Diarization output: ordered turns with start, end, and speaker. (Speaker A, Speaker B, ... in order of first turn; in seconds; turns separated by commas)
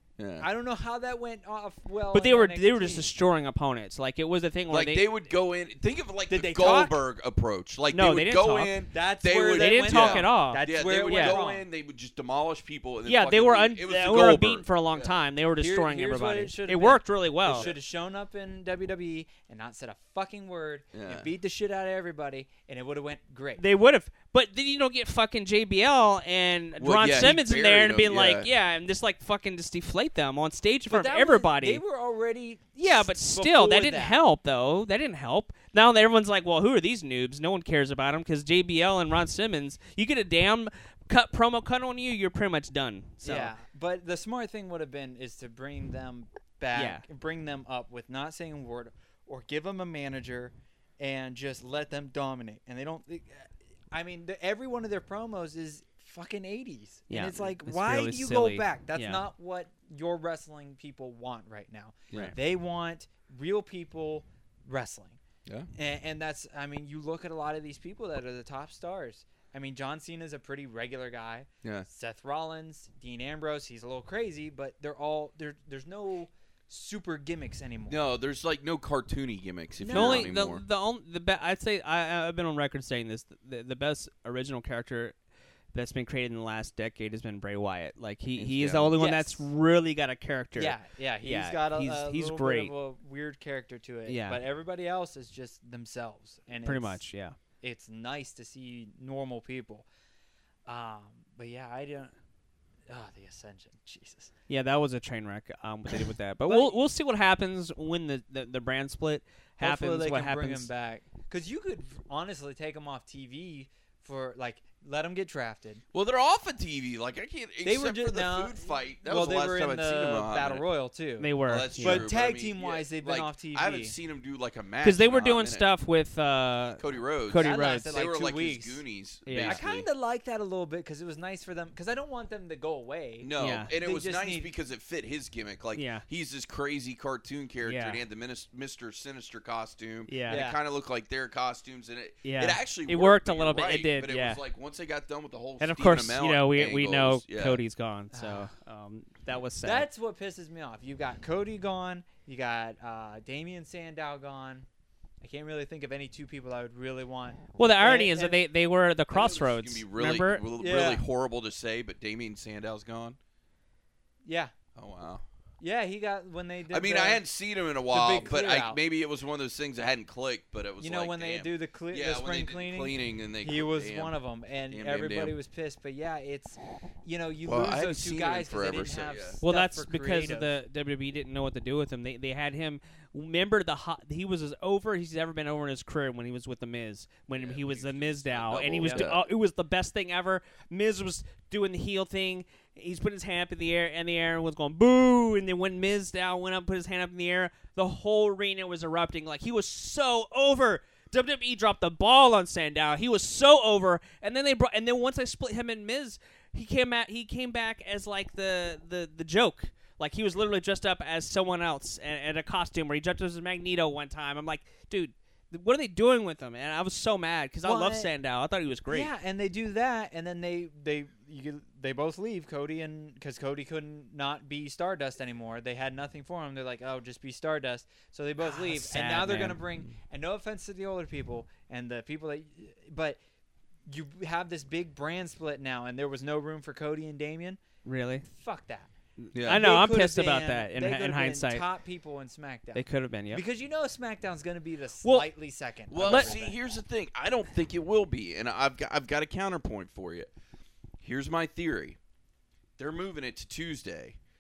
Speaker A: 0.2-0.5, Speaker B: 0.4-3.1, Speaker C: 2.1-5.1, Speaker A: 4.7-15.2, Speaker B: 6.3-7.0, Speaker C: 7.9-8.8, Speaker B: 8.9-11.7, Speaker C: 9.4-11.4, Speaker C: 13.1-17.7, Speaker B: 15.6-23.6, Speaker A: 17.5-17.8, Speaker A: 20.9-21.3, Speaker C: 23.6-31.8, Speaker A: 26.8-28.5, Speaker B: 30.9-34.2, Speaker C: 32.8-43.5, Speaker B: 43.2-65.2, Speaker C: 46.7-47.0, Speaker C: 57.1-59.2, Speaker B: 65.8-78.0, Speaker A: 71.6-71.9, Speaker A: 77.9-80.6, Speaker B: 79.8-80.3, Speaker C: 79.9-85.2, Speaker C: 85.7-92.7, Speaker A: 88.4-89.0, Speaker B: 89.0-89.5, Speaker B: 90.6-97.0, Speaker C: 94.1-94.4, Speaker C: 96.6-97.4, Speaker B: 97.6-99.9, Speaker B: 100.7-102.1, Speaker B: 102.9-104.3, Speaker C: 104.5-110.7, Speaker B: 106.5-106.8, Speaker B: 109.6-115.8, Speaker A: 115.9-120.7, Speaker B: 117.6-124.0, Speaker C: 121.2-122.0, Speaker A: 121.5-125.7, Speaker C: 124.8-128.0, Speaker A: 126.8-129.9, Speaker B: 127.4-128.8, Speaker C: 129.3-129.6, Speaker B: 129.4-134.5, Speaker A: 133.2-147.6, Speaker C: 133.4-133.7, Speaker C: 135.8-136.1, Speaker C: 137.6-138.0, Speaker C: 140.1-140.4, Speaker B: 140.3-140.6, Speaker C: 142.2-144.4, Speaker C: 145.6-149.9, Speaker B: 148.1-148.5, Speaker B: 149.6-154.7, Speaker B: 155.2-158.4, Speaker C: 157.6-160.4, Speaker A: 159.1-163.2, Speaker B: 160.6-161.0, Speaker B: 164.2-164.5, Speaker A: 164.8-165.2, Speaker B: 165.6-167.2, Speaker A: 166.7-174.2, Speaker B: 167.9-168.8, Speaker B: 170.8-180.6, Speaker A: 174.7-175.3, Speaker A: 177.4-179.4, Speaker C: 179.4-219.1, Speaker A: 187.4-189.2, Speaker B: 217.6-218.1, Speaker B: 218.9-233.2, Speaker C: 228.4-229.6, Speaker B: 233.9-237.6, Speaker C: 237.8-238.2, Speaker B: 238.2-238.9, Speaker C: 239.3-241.7, Speaker A: 239.3-239.7, Speaker B: 239.5-246.6, Speaker C: 242.8-243.4, Speaker A: 245.9-250.3, Speaker C: 246.0-246.4, Speaker A: 251.0-252.0, Speaker A: 252.8-254.2